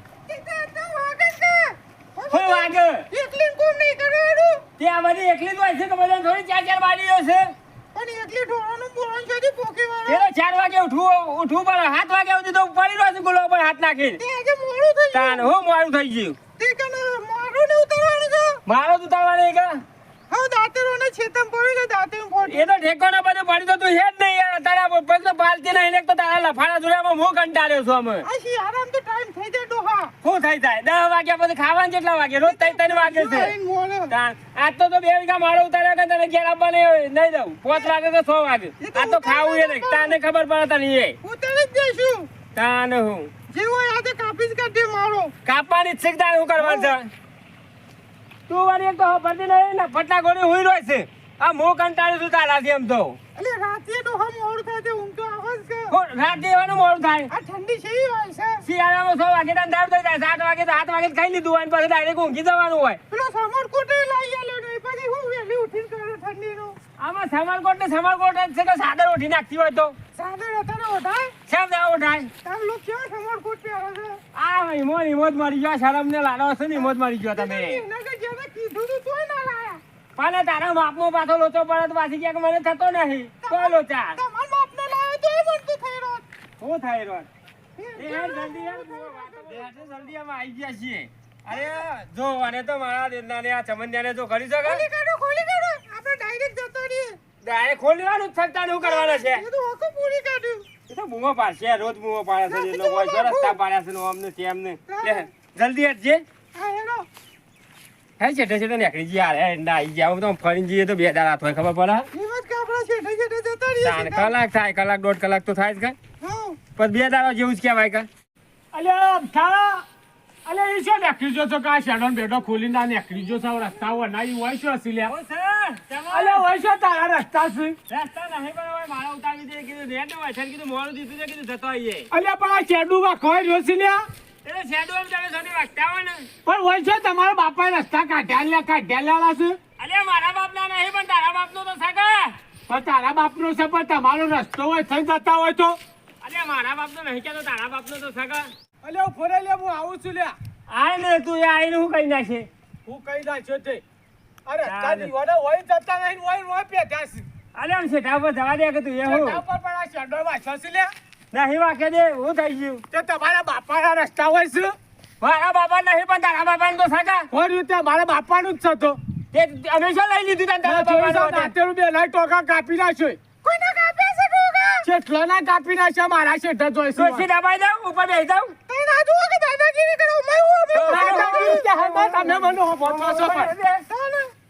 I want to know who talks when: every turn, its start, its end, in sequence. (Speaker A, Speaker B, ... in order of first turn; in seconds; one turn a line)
Speaker A: 0.3-4.7
Speaker B: 2.3-3.0
Speaker B: 4.8-7.5
Speaker A: 7.9-10.3
Speaker B: 10.1-14.2
Speaker A: 14.2-15.5
Speaker B: 15.1-16.4
Speaker A: 16.6-18.6
Speaker B: 18.6-19.8
Speaker A: 20.3-22.7
Speaker B: 22.4-28.2
Speaker A: 28.2-30.1
Speaker B: 30.2-33.5
Speaker A: 32.4-34.1
Speaker B: 34.1-41.2
Speaker A: 38.8-40.2
Speaker A: 41.2-42.3
Speaker B: 42.5-43.3
Speaker A: 43.5-45.3
Speaker B: 45.4-47.1
Speaker A: 46.6-46.9
Speaker B: 48.5-53.2
Speaker A: 53.4-55.9
Speaker B: 55.9-57.3
Speaker A: 57.3-58.6
Speaker B: 58.6-63.0
Speaker A: 63.1-66.8
Speaker B: 67.0-69.9
Speaker A: 70.1-71.3
Speaker B: 71.5-72.3
Speaker A: 72.4-74.2
Speaker B: 74.3-77.8
Speaker A: 76.7-79.8
Speaker B: 80.2-84.2
Speaker A: 83.4-86.2
Speaker B: 86.6-87.3
Speaker A: 87.8-89.7
Speaker B: 88.0-94.8
Speaker A: 91.5-91.8
Speaker A: 94.6-97.2
Speaker B: 97.4-99.4
Speaker A: 98.8-100.7
Speaker B: 100.9-106.2
Speaker A: 102.5-103.5
Speaker A: 104.9-105.3
Speaker A: 106.5-107.1
Speaker B: 108.2-112.1
Speaker A: 112.1-114.3
Speaker B: 113.8-115.9
Speaker A: 116.2-116.6
Speaker B: 116.8-118.1
Speaker C: 118.7-119.8
Speaker C: 120.5-125.1
Speaker B: 125.1-126.4
Speaker C: 126.1-127.8
Speaker B: 127.9-132.1
Speaker C: 132.1-134.0
Speaker B: 134.4-136.3
Speaker C: 136.4-139.6
Speaker B: 139.8-142.3
Speaker C: 142.7-145.8
Speaker B: 146.2-148.5
Speaker C: 148.8-150.3
Speaker B: 150.7-152.5
Speaker C: 152.8-153.8
Speaker C: 154.4-157.2
Speaker B: 154.6-155.1
Speaker B: 157.5-159.4
Speaker C: 159.0-160.9
Speaker B: 161.3-162.8
Speaker C: 162.9-164.7
Speaker B: 165.2-167.3
Speaker C: 167.3-169.0
Speaker B: 169.3-171.5
Speaker C: 170.6-173.2
Speaker A: 173.4-174.9
Speaker C: 174.8-177.3
Speaker B: 176.9-178.5
Speaker A: 178.7-181.7
Speaker B: 180.7-183.8
Speaker C: 180.8-183.5
Speaker A: 183.9-184.3